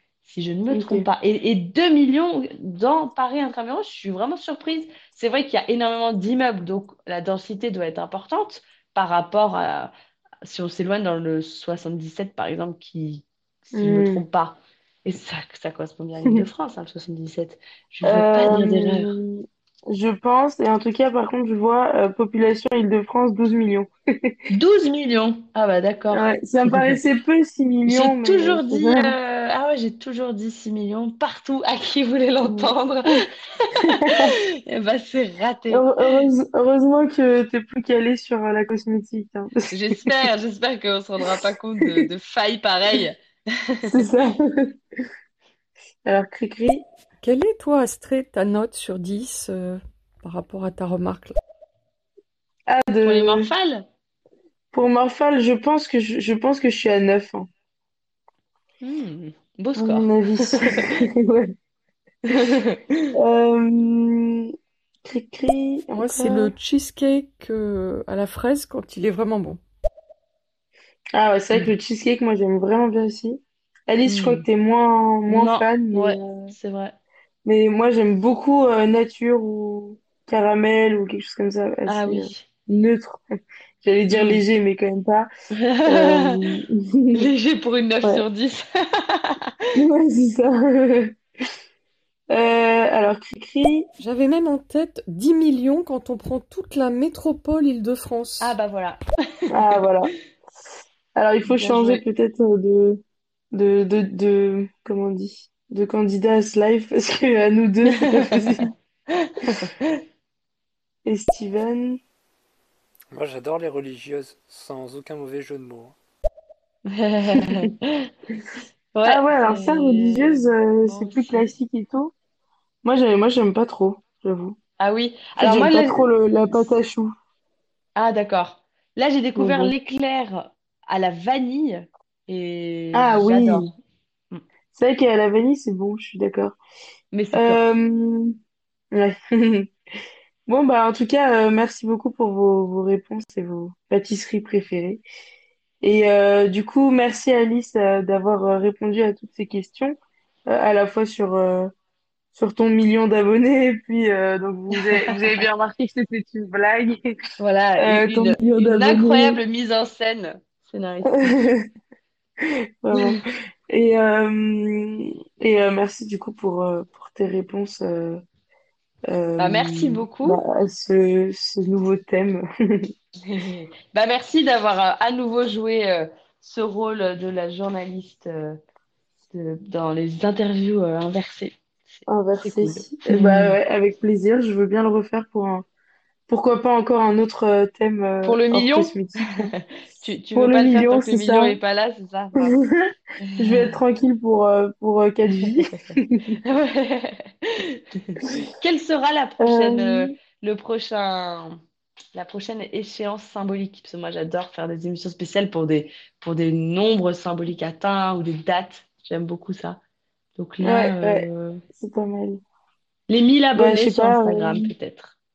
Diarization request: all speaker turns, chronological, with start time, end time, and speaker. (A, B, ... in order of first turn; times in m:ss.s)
0:00.2-0:09.9 A
0:00.7-0:01.1 B
0:10.4-0:19.2 A
0:13.8-0:14.2 B
0:18.0-0:24.4 B
0:24.5-0:26.9 A
0:26.1-0:29.1 B
0:27.8-0:35.9 A
0:32.4-0:32.7 B
0:33.8-0:34.3 B
0:35.7-0:40.1 B
0:39.7-0:44.0 A
0:43.9-0:44.7 B
0:46.0-0:46.8 B
0:47.2-0:51.4 C
0:52.7-0:53.5 B
0:53.0-0:53.8 A
0:54.7-0:57.5 B
0:58.8-1:00.9 A
0:59.7-1:01.5 B
1:02.3-1:03.1 A
1:03.1-1:04.5 B
1:05.0-1:06.5 B
1:06.0-1:09.6 C
1:11.1-1:16.5 B
1:14.0-1:14.4 A
1:15.3-1:17.0 A
1:17.4-1:23.2 B
1:21.9-1:22.4 A
1:23.8-1:25.3 B
1:24.1-1:24.4 A
1:25.5-1:26.4 A
1:25.8-1:27.3 B
1:27.1-1:29.5 A
1:29.7-1:31.1 B
1:32.3-1:33.9 B
1:34.0-1:38.6 C
1:38.4-1:39.5 A
1:39.5-1:40.1 B
1:41.2-1:48.7 B
1:41.4-1:42.0 A
1:48.0-1:48.6 A
1:49.1-1:50.0 A
1:51.0-1:52.0 B
1:53.1-1:56.0 D
1:56.9-1:58.1 A
1:57.3-1:57.7 B
1:58.9-2:01.5 A
1:59.0-2:02.1 B
2:02.8-2:04.6 B
2:04.8-2:06.7 A
2:05.4-2:07.1 B
2:08.0-2:13.7 A
2:09.4-2:09.7 B
2:12.9-2:13.7 B
2:14.7-2:16.6 B
2:17.1-2:17.6 A
2:17.3-2:18.4 B
2:18.9-2:19.7 B
2:20.5-2:25.0 B
2:25.8-2:31.7 B
2:32.3-2:37.2 B
2:34.7-2:35.4 A
2:37.4-2:41.5 A
2:37.8-2:39.4 B
2:41.1-2:41.6 B
2:42.8-2:48.2 B
2:42.9-2:43.2 A
2:49.1-2:52.9 B
2:49.4-2:50.4 A
2:53.2-2:58.6 A
2:59.3-3:03.6 A
3:02.1-3:05.6 B
3:06.3-3:09.5 B
3:08.2-3:12.5 A
3:10.3-3:11.6 B
3:12.4-3:16.4 B
3:13.2-3:13.8 A
3:15.4-3:15.9 A
3:16.4-3:21.6 A
3:19.4-3:20.1 B
3:22.1-3:29.8 A
3:30.4-3:31.6 A
3:30.6-3:32.4 B
3:33.1-3:35.2 A
3:33.5-3:34.7 B